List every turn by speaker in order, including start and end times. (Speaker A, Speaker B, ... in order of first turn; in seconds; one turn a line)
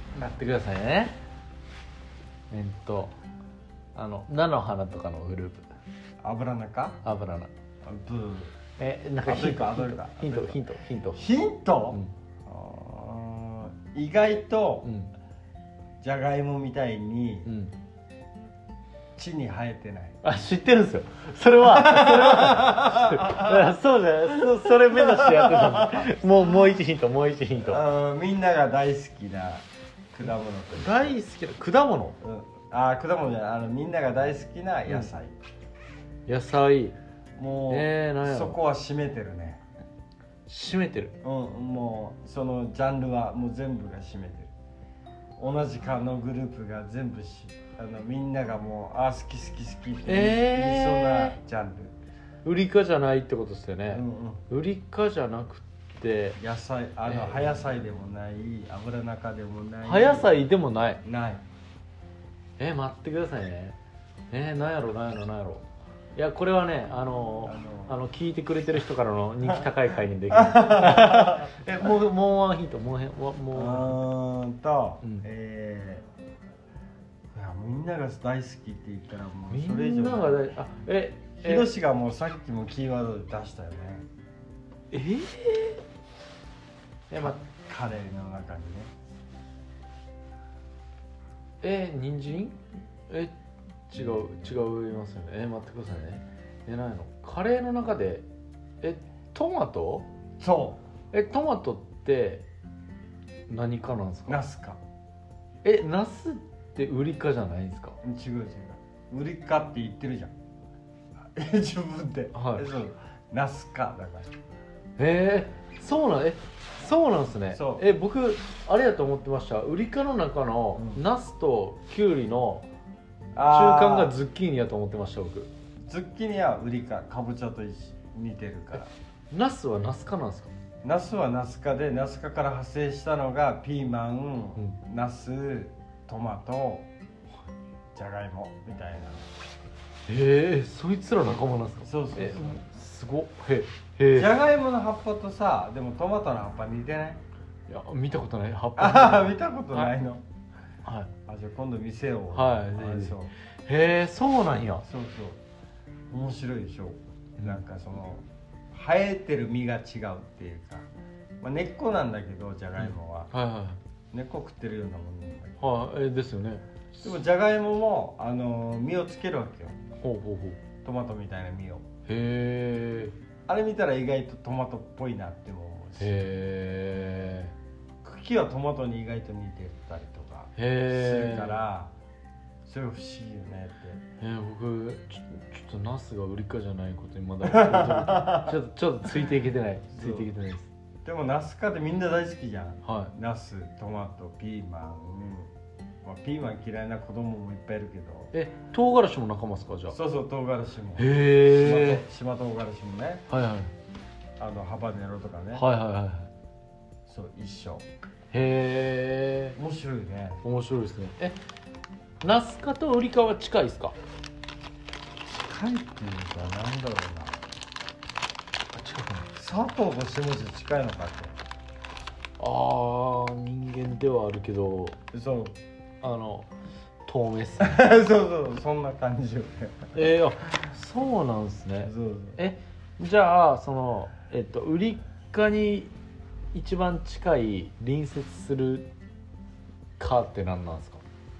Speaker A: 0.1-1.2
Speaker A: 2.5-3.1
Speaker A: 3.9-5.7
Speaker B: 6.2-7.0
Speaker A: 7.0-7.5
Speaker B: 7.8-8.6
Speaker A: 8.8-11.2
Speaker B: 9.2-10.6
Speaker B: 11.1-14.9
Speaker A: 14.8-15.1
Speaker B: 16.0-17.5
Speaker A: 17.4-17.7
Speaker B: 19.1-20.2
Speaker A: 20.2-27.8
Speaker B: 21.6-23.7
Speaker B: 24.3-26.1
Speaker B: 27.6-31.2
Speaker A: 30.7-32.2
Speaker B: 32.2-35.3
Speaker A: 36.3-37.0
Speaker B: 37.4-39.6
Speaker A: 37.7-38.6
Speaker A: 40.5-41.1
Speaker B: 41.2-44.5
Speaker B: 45.4-52.0
Speaker A: 50.1-51.4
Speaker A: 52.4-56.4
Speaker B: 53.9-54.4
Speaker B: 56.4-60.3
Speaker A: 57.1-57.5
Speaker A: 59.8-61.0
Speaker B: 61.0-61.4
Speaker A: 62.6-63.8
Speaker A: 64.3-65.6
Speaker A: 66.2-74.0
Speaker B: 67.5-68.0
Speaker B: 70.3-71.6
Speaker B: 73.5-76.0
Speaker B: 77.3-80.4
Speaker A: 79.5-81.7
Speaker B: 81.4-84.0
Speaker A: 84.9-85.8
Speaker A: 87.1-87.4
Speaker B: 87.2-88.9
Speaker A: 91.6-93.3
Speaker A: 93.9-98.2
Speaker A: 98.8-100.0
Speaker B: 100.4-100.8
Speaker A: 101.1-102.5
Speaker A: 103.5-104.4
Speaker B: 104.3-104.8
Speaker A: 105.6-108.0
Speaker B: 108.0-110.3
Speaker B: 111.2-114.3
Speaker A: 112.3-112.7
Speaker A: 115.0-122.7
Speaker B: 117.5-117.8
Speaker B: 120.8-121.0
Speaker B: 123.3-124.2
Speaker A: 123.5-125.5
Speaker B: 125.8-128.9
Speaker A: 129.3-130.5
Speaker B: 130.8-136.9
Speaker B: 137.9-139.3
Speaker A: 140.1-144.3
Speaker B: 141.8-142.6
Speaker B: 144.1-147.2
Speaker A: 147.7-149.9
Speaker B: 148.8-150.2
Speaker A: 150.8-151.1
Speaker B: 151.2-153.3
Speaker A: 152.3-154.8
Speaker B: 154.8-155.4
Speaker B: 156.1-160.9
Speaker B: 161.4-163.3
Speaker A: 162.8-163.8
Speaker B: 164.1-165.6
Speaker A: 165.6-167.1
Speaker B: 167.0-169.8
Speaker A: 170.0-170.6
Speaker B: 170.8-171.8
Speaker A: 172.1-173.1
Speaker B: 173.5-176.2
Speaker A: 176.0-177.5
Speaker B: 178.0-181.9
Speaker A: 180.6-181.6
Speaker B: 182.6-184.0
Speaker A: 184.2-190.7
Speaker B: 187.4-188.6
Speaker B: 189.9-190.3
Speaker B: 191.0-195.5
Speaker A: 192.8-193.1
Speaker B: 196.0-198.3
Speaker A: 198.3-200.0
Speaker B: 199.9-203.2
Speaker A: 201.0-202.0
Speaker A: 203.3-203.7
Speaker B: 204.4-205.6
Speaker A: 205.5-206.3
Speaker B: 207.1-207.8
Speaker A: 208.3-209.6
Speaker B: 209.6-210.4
Speaker A: 210.4-211.4
Speaker A: 212.2-213.9
Speaker B: 215.3-217.4
Speaker A: 218.7-219.3
Speaker B: 219.3-221.3
Speaker A: 222.4-225.0
Speaker B: 225.1-225.6
Speaker A: 226.0-226.5
Speaker A: 227.1-227.9
Speaker B: 227.6-230.0
Speaker A: 229.9-235.9
Speaker B: 231.8-232.4
Speaker A: 236.5-238.9
Speaker A: 240.0-241.0